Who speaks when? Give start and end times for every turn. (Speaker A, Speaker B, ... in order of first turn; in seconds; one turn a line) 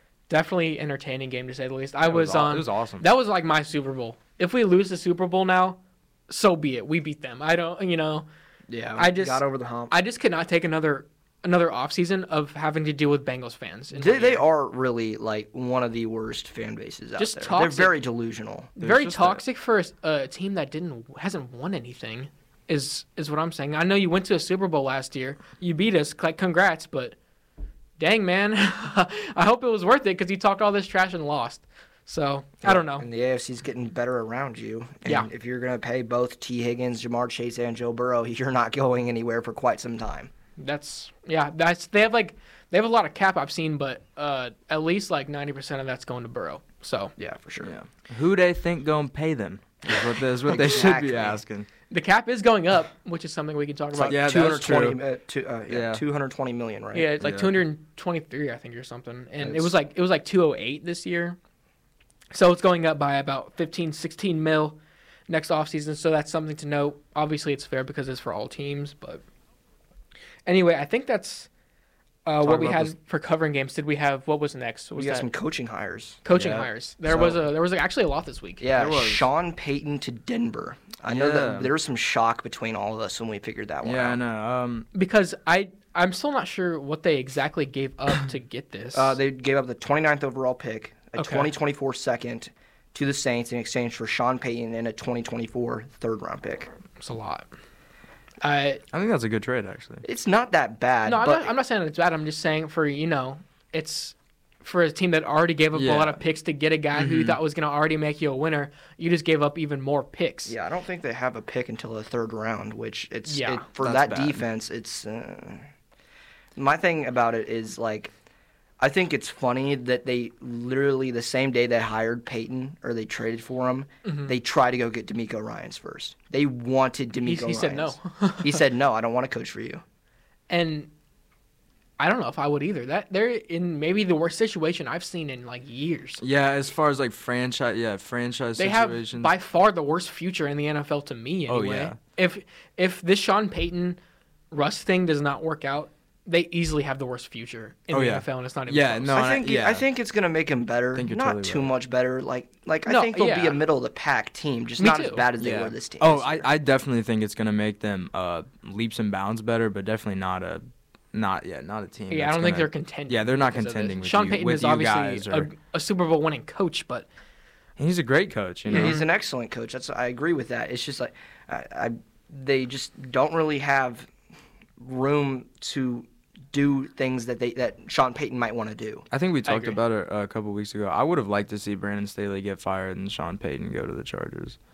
Speaker A: 0.3-8.3
Speaker B: 2.0-3.0
Speaker C: 8.7-9.9
Speaker A: 8.9-14.4
Speaker C: 13.9-18.8
Speaker A: 17.2-17.9
Speaker A: 18.8-27.1
Speaker B: 18.8-19.4
Speaker A: 28.0-33.1
Speaker C: 32.6-40.3
Speaker A: 40.6-47.1
Speaker C: 47.2-47.7
Speaker B: 47.6-51.7
Speaker C: 50.5-51.4
Speaker A: 51.9-54.2
Speaker C: 53.9-57.1
Speaker B: 54.0-55.0
Speaker B: 55.7-56.0
Speaker A: 56.9-61.4
Speaker B: 57.2-57.5
Speaker C: 59.4-59.7
Speaker A: 62.3-69.2
Speaker A: 70.5-71.5
Speaker A: 72.2-75.3
Speaker B: 72.4-72.9
Speaker C: 75.0-76.2
Speaker A: 76.2-78.7
Speaker B: 76.3-76.7
Speaker C: 77.1-77.4
Speaker C: 78.6-84.2
Speaker B: 78.7-79.3
Speaker B: 81.1-81.7
Speaker B: 83.8-84.9
Speaker A: 84.9-89.2
Speaker C: 88.9-96.7
Speaker A: 91.2-91.5
Speaker A: 97.0-97.5
Speaker A: 98.4-98.8
Speaker B: 98.9-100.0
Speaker C: 100.0-101.5
Speaker A: 101.0-110.5
Speaker B: 105.7-106.2
Speaker B: 106.9-107.4
Speaker C: 110.5-115.7
Speaker A: 113.3-113.7
Speaker B: 113.8-114.4
Speaker C: 116.5-118.1
Speaker C: 118.8-129.8
Speaker A: 124.0-124.3
Speaker A: 127.2-128.6
Speaker A: 130.5-130.9
Speaker A: 132.0-136.2
Speaker B: 136.2-139.3
Speaker A: 138.6-144.0
Speaker B: 141.5-142.0
Speaker A: 144.5-149.2
Speaker B: 147.9-149.8
Speaker C: 149.1-156.5
Speaker B: 150.9-151.7
Speaker A: 152.8-153.6
Speaker A: 154.8-155.2
Speaker B: 155.4-165.5
Speaker A: 162.1-167.1
Speaker B: 167.8-169.0
Speaker C: 168.7-174.1
Speaker A: 168.7-169.1
Speaker C: 174.8-179.0
Speaker B: 179.1-184.6
Speaker A: 179.4-179.8